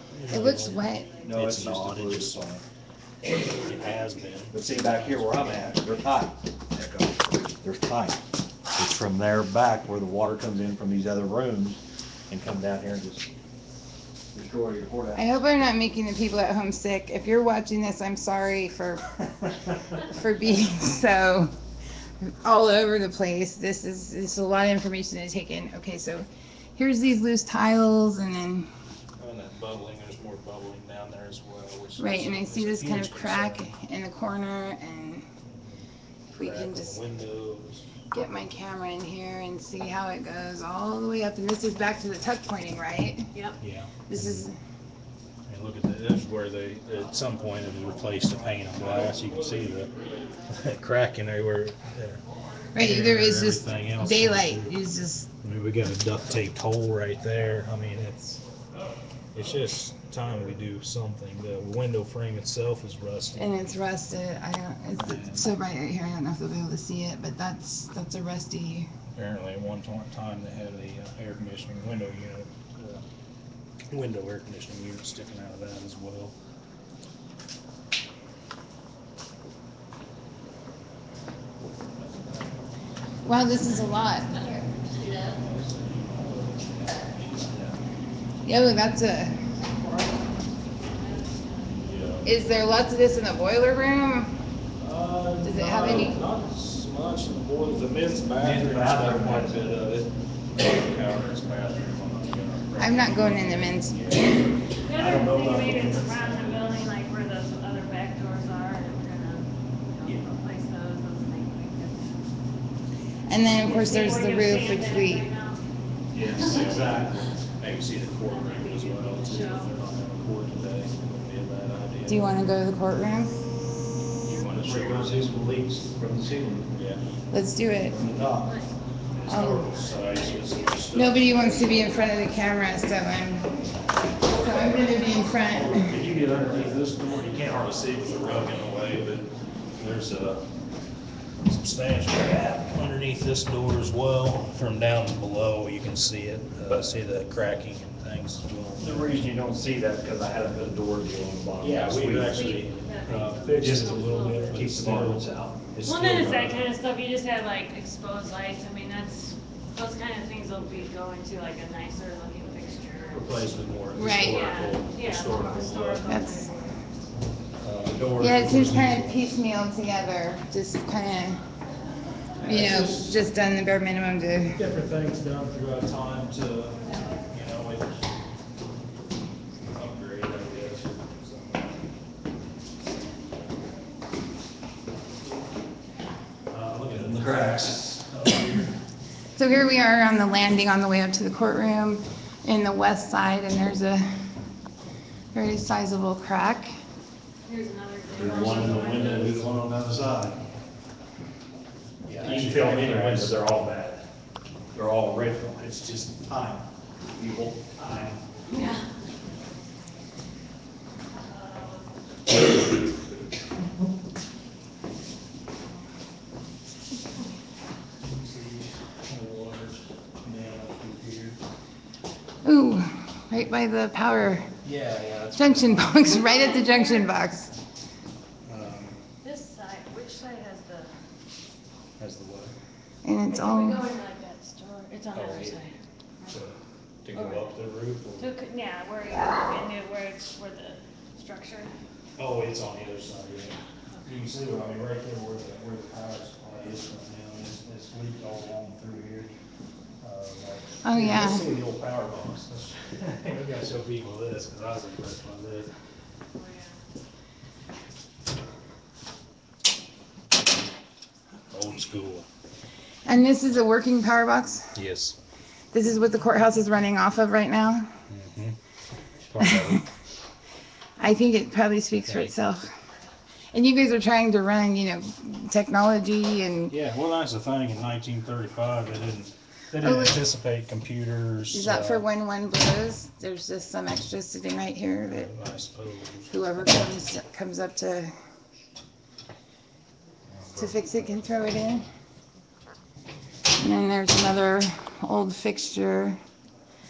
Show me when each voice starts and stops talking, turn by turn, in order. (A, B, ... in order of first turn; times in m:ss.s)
0:00.1-0:02.4 A
0:00.3-0:01.2 B
0:01.2-0:02.6 C
0:03.2-0:05.6 A
0:04.5-0:08.2 C
0:08.8-0:11.8 C
0:12.3-0:13.3 C
0:14.3-0:15.2 C
0:15.2-0:21.5 B
0:22.2-0:28.7 B
0:29.2-0:33.7 A
0:32.0-0:35.3 B
0:35.5-0:37.9 A
0:36.3-0:37.0 B
0:38.1-0:43.3 B
0:43.3-0:43.6 D
0:43.6-0:44.5 A
0:44.1-0:44.6 B
0:45.5-0:49.9 A
0:50.5-0:52.2 A
0:52.7-0:55.3 B
0:52.8-0:54.7 A
0:55.4-0:58.4 A
0:59.3-1:03.8 A
1:03.4-1:08.9 B
1:05.0-1:05.5 A
1:09.1-1:13.0 A
1:13.9-1:16.3 A
1:23.2-1:24.7 B
1:24.9-1:25.3 D
1:25.4-1:27.7 A
1:28.4-1:29.4 B
1:30.9-1:31.8 D
1:31.8-1:32.3 A
1:32.2-1:34.4 B
1:34.8-1:46.9 A
1:35.4-1:36.2 B
1:38.4-1:39.6 C
1:42.8-1:44.2 B
1:44.8-1:52.2 D
1:53.3-1:55.3 B
1:53.5-1:55.6 D
1:56.1-1:57.4 C
1:56.2-2:02.4 A
1:56.3-1:56.7 D
1:58.2-1:59.7 D
2:02.1-2:03.3 B
2:04.2-2:05.4 A
2:04.5-2:06.7 C
2:06.7-2:07.0 A
2:07.3-2:08.0 B
2:08.0-2:08.5 C
2:08.4-2:08.7 D
2:09.1-2:12.1 A
2:09.3-2:09.7 B
2:09.8-2:11.0 D
2:10.9-2:13.5 B
2:14.2-2:16.0 B
2:14.5-2:17.4 C
2:16.7-2:20.4 A
2:21.5-2:29.3 A
2:26.7-2:27.0 C
2:28.8-2:32.4 C
2:31.6-2:36.7 A
2:32.1-2:34.7 D
2:33.6-2:35.6 C
2:35.8-2:43.3 D
2:43.1-2:46.1 A
2:43.9-2:44.4 B
2:44.2-2:46.8 D
2:46.1-2:46.5 B
2:47.6-2:48.3 C
2:47.9-2:49.2 A
2:48.2-2:51.4 B
2:52.4-2:53.2 A
2:52.4-2:54.6 B
2:54.5-2:58.0 A
2:59.7-3:01.7 A
3:06.5-3:08.7 A
3:06.9-3:08.0 C
3:09.4-3:14.3 B
3:15.3-3:16.7 B
3:17.5-3:19.5 D
3:18.1-3:20.4 C
3:22.1-3:23.4 A
3:22.1-3:24.1 C
3:24.7-3:28.2 C
3:28.5-3:28.9 D
3:31.1-3:31.9 D
3:38.1-3:41.4 A
3:42.4-3:44.5 B
3:44.6-3:46.3 A
3:45.4-3:47.5 B
3:46.2-3:47.1 D
3:48.5-3:49.0 A
3:49.2-3:50.9 D
3:52.0-3:52.5 A
3:53.0-3:53.8 B
3:53.3-3:55.7 D
3:55.1-3:55.6 A
3:56.2-3:58.3 A
3:57.1-3:57.5 D
3:58.2-4:01.7 D
4:02.2-4:09.3 A
4:10.0-4:15.7 A
4:10.8-4:11.5 B
4:16.3-4:16.8 D
4:21.5-4:22.3 A
4:23.1-4:24.7 B
4:24.8-4:25.2 A
4:25.7-4:27.9 B
4:28.1-4:28.6 A
4:29.3-4:29.9 A
4:29.4-4:29.8 B
4:31.0-4:32.7 B
4:32.0-4:32.3 A
4:33.5-4:36.8 B
4:36.7-4:42.1 A
4:39.8-4:40.2 B
4:41.5-4:45.3 B
4:45.1-4:46.3 A
4:46.3-4:48.1 B
4:50.3-4:50.8 A
4:50.5-4:51.9 B
4:53.6-4:56.2 B